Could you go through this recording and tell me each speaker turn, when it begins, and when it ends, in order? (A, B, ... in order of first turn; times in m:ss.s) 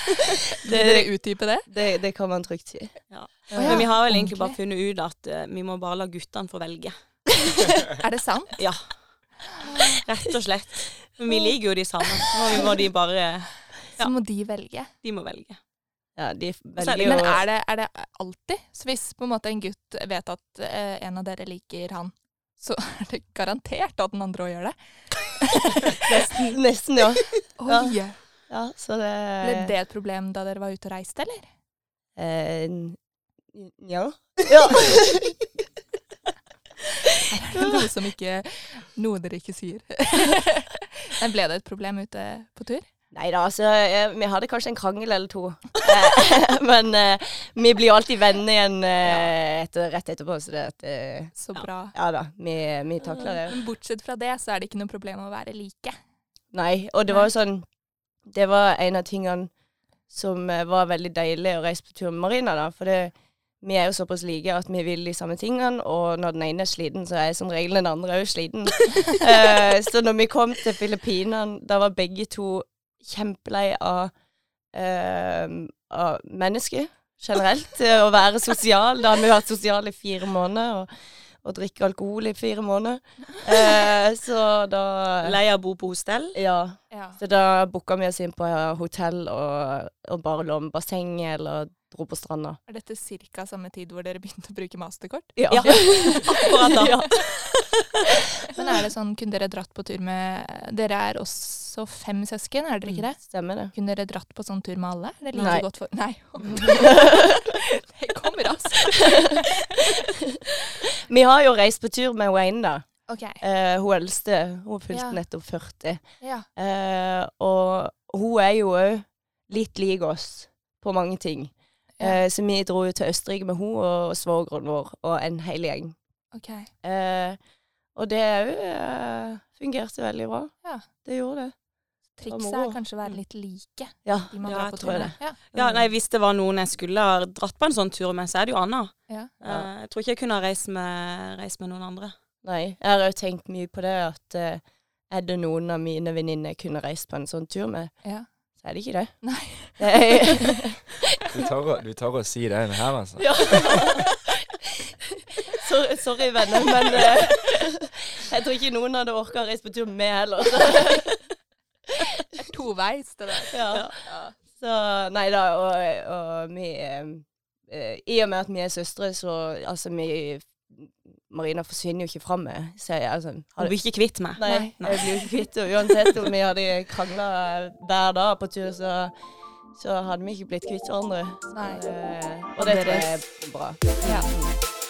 0:00.6-0:01.7 A
0:00.6-0:01.1 B
0:01.6-0:02.9 B
0:03.1-0:06.9 C
0:03.5-0:03.8 B
0:03.6-0:04.6 A
0:07.8-0:08.5 A
0:09.8-0:14.1 C
0:12.2-0:12.6 B
0:14.0-0:14.9 A
0:15.0-0:15.6 C
0:16.2-0:17.4 B
0:16.8-0:17.2 C
0:17.0-0:26.0 A
0:26.0-0:28.0 B
0:27.6-0:28.2 A
0:28.5-0:29.7 B
0:29.4-0:31.5 A
0:32.2-0:33.0 B
0:33.5-0:35.4 B
0:37.1-0:42.8 A
0:43.1-0:51.3 B
0:51.4-0:51.9 A
0:51.9-0:53.6 B
0:53.2-0:56.0 A
0:56.5-0:57.6 B
0:58.3-0:59.5 B
1:00.1-1:14.1 B
1:14.7-1:20.9 B
1:21.4-1:25.4 B
1:25.2-1:26.4 C
1:26.3-1:32.6 B
1:26.9-1:27.2 A
1:32.7-1:36.3 A
1:35.4-1:37.2 B
1:35.5-1:37.3 C
1:38.5-1:43.2 A
1:42.8-1:43.7 B
1:43.7-1:49.9 A
1:45.4-1:45.6 B
1:46.5-1:47.4 B
1:49.1-1:52.8 B
1:53.1-1:53.4 A
1:53.4-1:56.0 B
1:54.9-1:55.2 A
1:56.2-1:56.5 A
1:56.6-2:06.0 B
2:06.3-2:06.7 A
2:06.8-2:07.4 B
2:07.9-2:10.5 B
2:11.0-2:11.5 B
2:12.2-2:15.4 A
2:12.2-2:12.8 B
2:14.0-2:15.8 B
2:14.4-2:22.1 C
2:22.4-2:27.9 B
2:28.6-2:29.2 B
2:29.2-2:30.4 A
2:29.8-2:30.8 B
2:31.2-2:33.6 D
2:33.2-2:41.2 B
2:42.3-2:44.3 A
2:43.5-2:43.9 B
2:44.5-2:53.8 B
2:53.6-2:55.2 C
2:54.3-2:59.1 B
2:54.4-2:54.7 A
2:59.8-3:04.6 B
3:01.5-3:01.8 A
3:02.6-3:03.1 A
3:04.0-3:04.3 A